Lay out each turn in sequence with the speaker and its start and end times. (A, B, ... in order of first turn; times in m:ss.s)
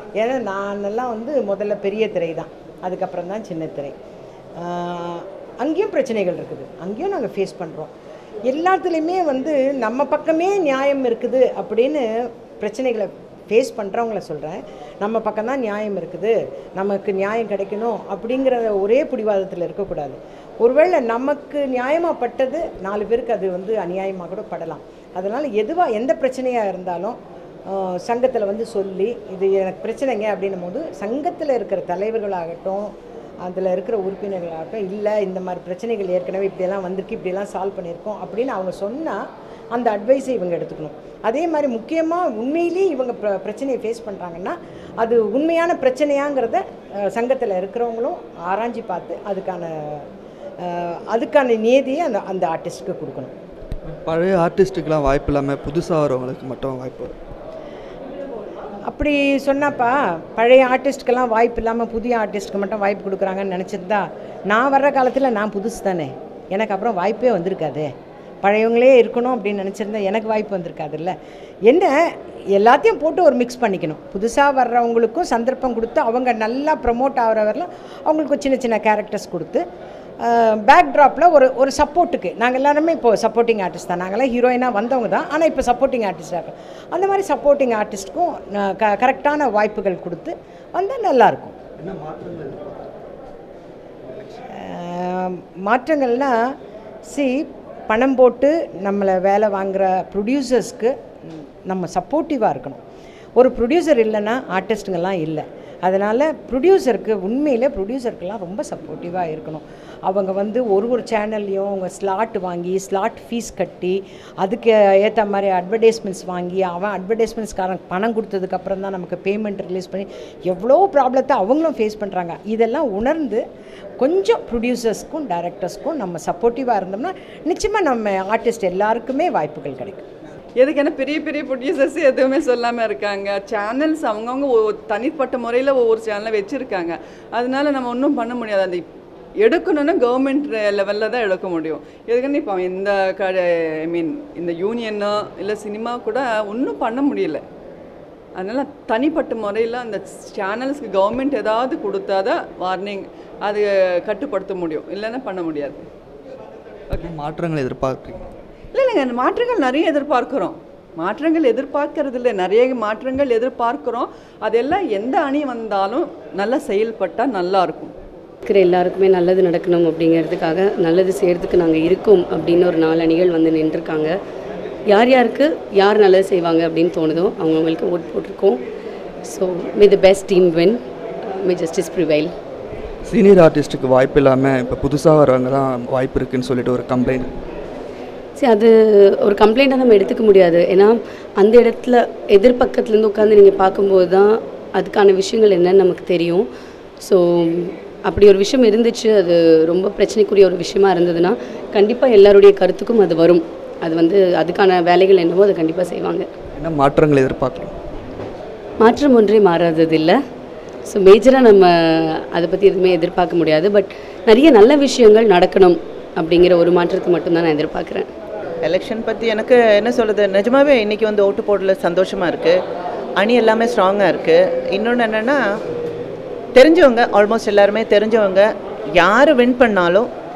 0:00.2-0:03.9 A
0:04.6-0:07.9 A
0:08.4-0:27.2 A
0:27.7-0:32.9 A
0:33.4-0:39.2 A
0:39.7-0:50.0 A
0:50.6-0:53.3 A
0:53.8-0:57.2 B
0:58.9-1:07.9 A
1:08.4-1:11.1 A
1:11.7-1:11.9 A
1:12.5-1:19.6 A
1:20.2-1:31.6 A
1:31.8-1:32.8 B
1:34.5-1:36.4 A
1:37.1-1:40.9 A
1:41.6-1:42.8 A
1:43.4-2:03.4 A
2:04.0-2:10.0 A
2:10.6-2:18.8 C
2:19.4-2:27.4 C
2:28.3-2:35.8 C
2:37.0-2:38.3 B
2:38.7-2:47.9 C
2:48.4-2:54.1 D
2:54.9-2:58.6 D
2:59.3-3:02.3 D
3:03.0-3:07.4 B
3:08.4-3:08.7 D
3:09.2-3:16.4 D
3:17.0-3:26.3 D
3:26.6-3:27.8 B
3:28.8-3:30.2 D
3:30.9-3:38.1 D
3:38.6-3:42.6 E
3:43.2-3:45.4 E
3:46.5-3:50.1 E